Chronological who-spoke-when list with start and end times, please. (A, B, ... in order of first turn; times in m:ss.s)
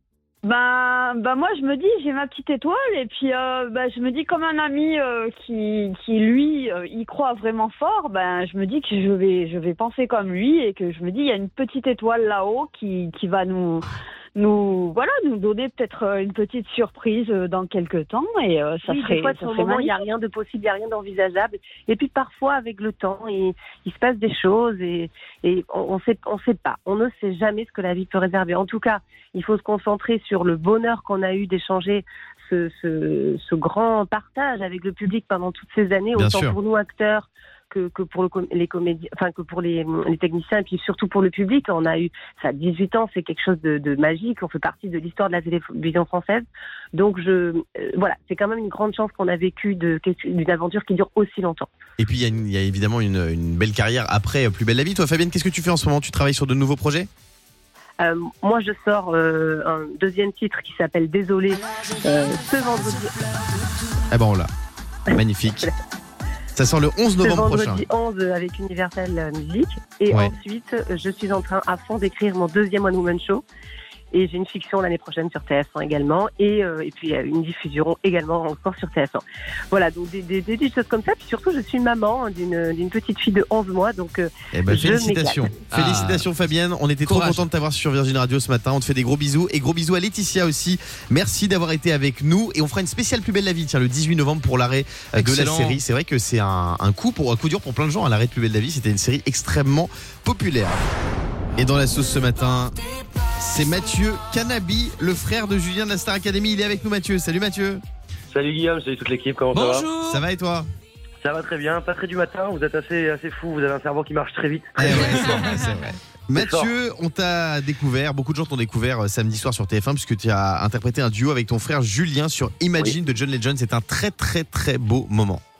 0:00.4-0:19.9 A
0:18.9-0:51.7 B
0:36.2-0:36.6 C
0:52.0-0:57.1 C
0:58.0-1:03.3 B
1:04.1-1:04.5 C
1:05.1-1:05.7 C
1:06.5-1:07.8 C
1:07.2-1:13.4 B
1:14.1-1:25.5 B
1:24.5-1:40.8 C
1:25.7-1:26.3 D
1:27.0-1:27.4 D
1:35.1-1:35.8 D
1:41.6-1:42.7 C
1:43.4-1:47.8 C
1:48.3-1:49.9 E
1:49.5-1:50.2 D
1:50.0-1:50.7 C
1:51.2-1:55.6 E
1:54.8-2:05.4 C
1:56.4-1:56.7 E